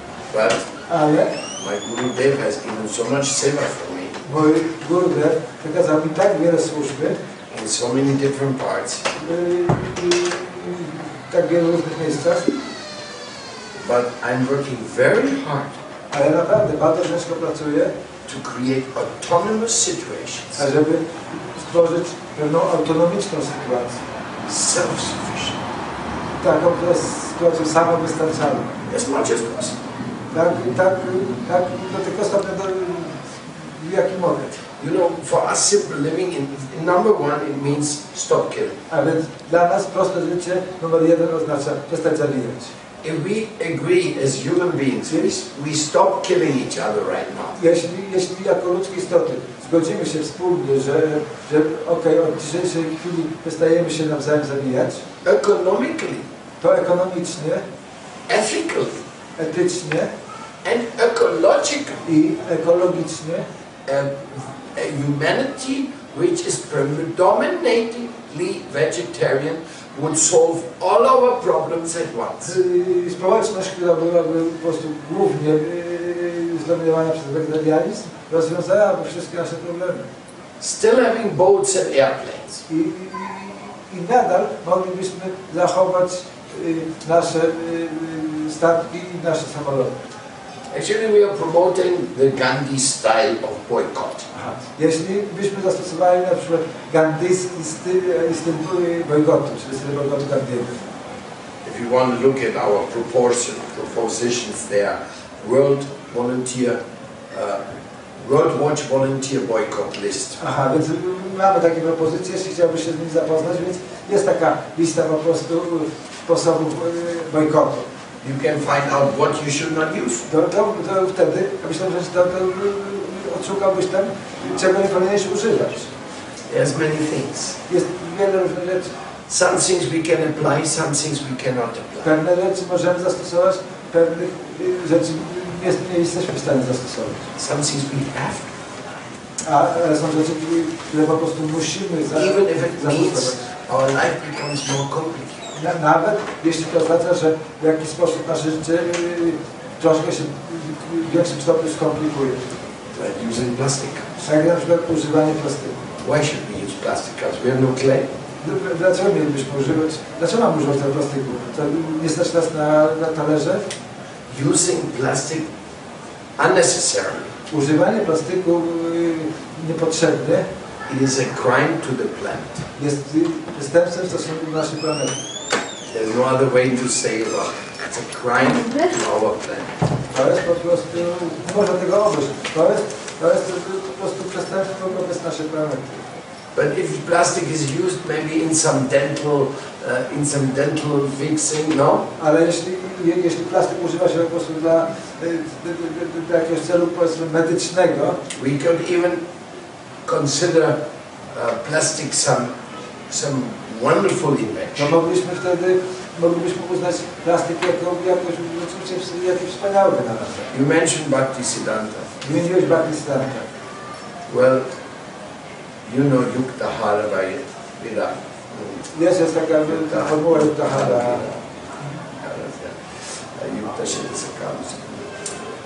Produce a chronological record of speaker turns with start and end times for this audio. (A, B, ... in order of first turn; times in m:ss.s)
0:00.3-0:00.6 A
0:00.9-0:01.4 B
0:01.6-0:04.2 A
0:04.2-0:07.2 B
0:07.5-0:09.0 A
0:09.2-0:12.6 B
0:13.8-0:15.8 A
0:16.1-0:17.9 B
0:18.3-0:20.6 A
0:20.6-0:24.0 B
0:24.4-0:25.6 A
0:26.3-0:28.8 B
0:28.8-0:29.8 A
0:30.3-0:34.6 B
0:34.8-0:38.8 A
0:38.9-0:42.7 B
0:43.0-0:47.6 A
0:47.6-0:55.0 B
0:55.2-0:56.2 A
0:56.6-0:57.6 B
0:58.3-0:59.0 A
0:59.4-1:00.1 B
1:00.6-1:02.1 A
1:02.0-1:03.4 B
1:03.8-1:12.6 A
1:12.4-1:20.0 B
1:20.6-1:22.6 A
1:22.7-1:29.9 B
1:30.7-1:34.3 A
1:34.3-1:40.8 B
1:41.6-1:47.6 A
1:48.2-1:50.4 A
1:50.4-1:57.9 B
1:58.2-2:00.3 A
2:00.3-2:05.9 B
2:06.5-2:07.6 A
2:07.6-2:08.9 B
2:09.3-2:12.1 A
2:12.0-2:17.3 B
2:17.4-2:18.5 A
2:19.4-2:23.5 B
2:22.1-2:25.5 A
2:25.5-2:32.5 B
2:32.9-2:34.1 A
2:34.2-2:35.8 B
2:36.0-2:38.1 A
2:38.4-2:43.6 B
2:44.3-2:45.4 A
2:46.4-2:47.3 A
2:47.5-2:50.4 B
2:50.9-2:52.6 A
2:52.8-2:55.2 B
2:55.9-2:59.8 A
3:00.1-3:06.0 B
3:06.5-3:12.1 A
3:12.2-3:18.2 B
3:18.3-3:19.2 A
3:20.0-3:22.5 A
3:23.1-3:24.9 A
3:24.8-3:30.5 B
3:30.5-3:32.2 A
3:32.2-3:33.4 B
3:34.3-3:34.7 A
3:35.8-3:38.8 A
3:38.9-3:41.2 B
3:39.7-3:41.4 A
3:42.2-3:42.8 A
3:43.3-3:45.1 A